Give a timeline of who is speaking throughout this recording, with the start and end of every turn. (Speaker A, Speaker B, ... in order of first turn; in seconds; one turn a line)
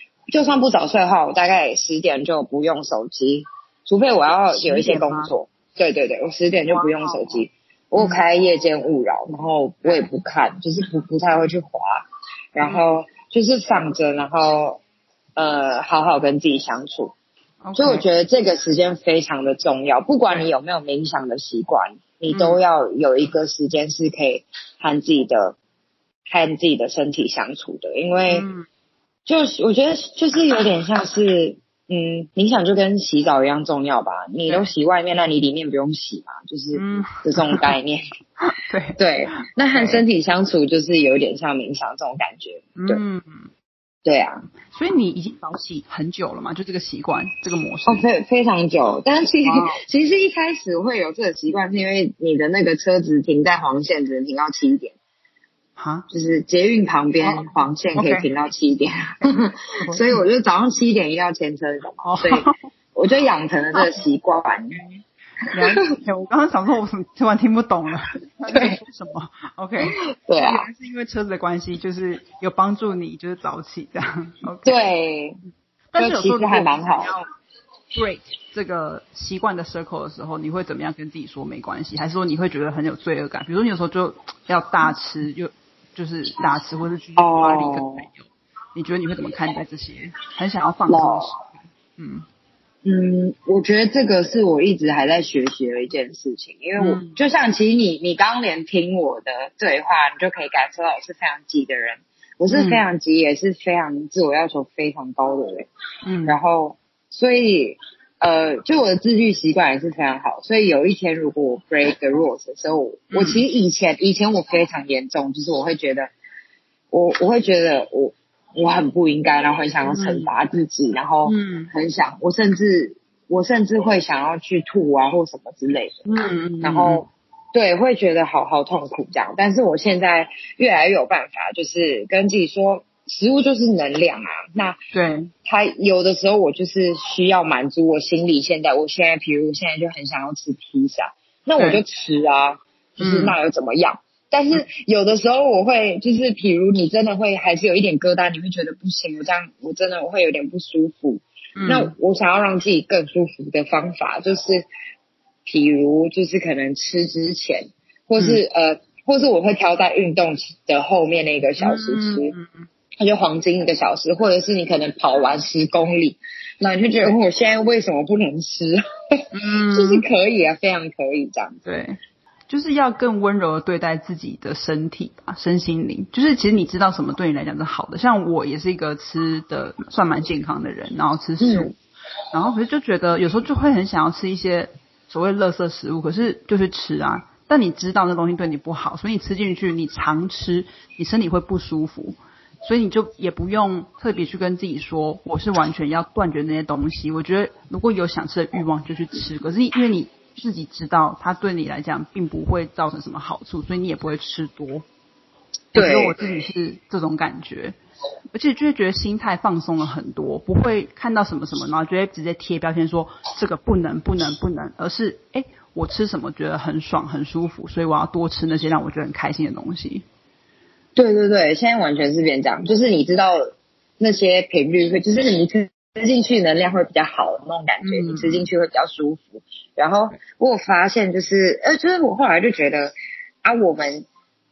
Speaker A: 0.3-12.0
Speaker B: 4.6-5.3
Speaker B: 6.7-7.4
Speaker B: 8.0-8.2
Speaker A: 12.5-14.8
Speaker A: 15.4-17.1
Speaker B: 17.6-18.1
Speaker A: 17.8-25.6
Speaker B: 22.3-22.6
Speaker A: 26.3-28.5
Speaker B: 28.3-28.7
Speaker A: 29.2-38.0
Speaker B: 36.7-37.7
Speaker B: 38.4-40.0
Speaker A: 39.0-43.0
Speaker B: 42.8-43.5
Speaker A: 44.0-44.5
Speaker B: 44.6-48.0
Speaker A: 47.9-55.0
Speaker B: 49.4-49.8
Speaker B: 55.8-56.1
Speaker A: 56.1-64.8
Speaker B: 57.2-58.3
Speaker B: 59.2-60.2
Speaker B: 62.0-62.6
Speaker B: 63.7-64.0
Speaker B: 65.5-74.8
Speaker A: 68.5-68.8
Speaker A: 69.8-70.6
Speaker A: 74.7-75.4
Speaker B: 75.9-77.2
Speaker A: 76.0-77.2
Speaker B: 77.9-92.2
Speaker A: 87.2-88.1
Speaker A: 90.9-91.3
Speaker A: 92.8-105.7
Speaker B: 96.8-97.2
Speaker B: 102.5-102.8
Speaker B: 106.0-106.4
Speaker A: 106.3-116.1
Speaker B: 113.1-113.4
Speaker A: 116.9-126.0
Speaker B: 119.9-120.3
Speaker B: 121.2-121.7
Speaker B: 126.1-127.0
Speaker A: 126.6-134.8
Speaker B: 134.9-135.3
Speaker A: 135.4-154.6
Speaker B: 143.0-143.4
Speaker B: 151.6-151.9
Speaker A: 155.4-162.3
Speaker B: 161.6-162.7
Speaker A: 163.0-168.8
Speaker B: 169.3-170.1
Speaker A: 169.7-171.6
Speaker B: 171.6-172.0
Speaker B: 172.5-181.7
Speaker A: 181.4-181.7
Speaker B: 182.3-204.9
Speaker A: 205.7-206.4
Speaker B: 205.7-207.8
Speaker B: 208.3-220.1
Speaker A: 220.9-234.1
Speaker B: 227.8-228.5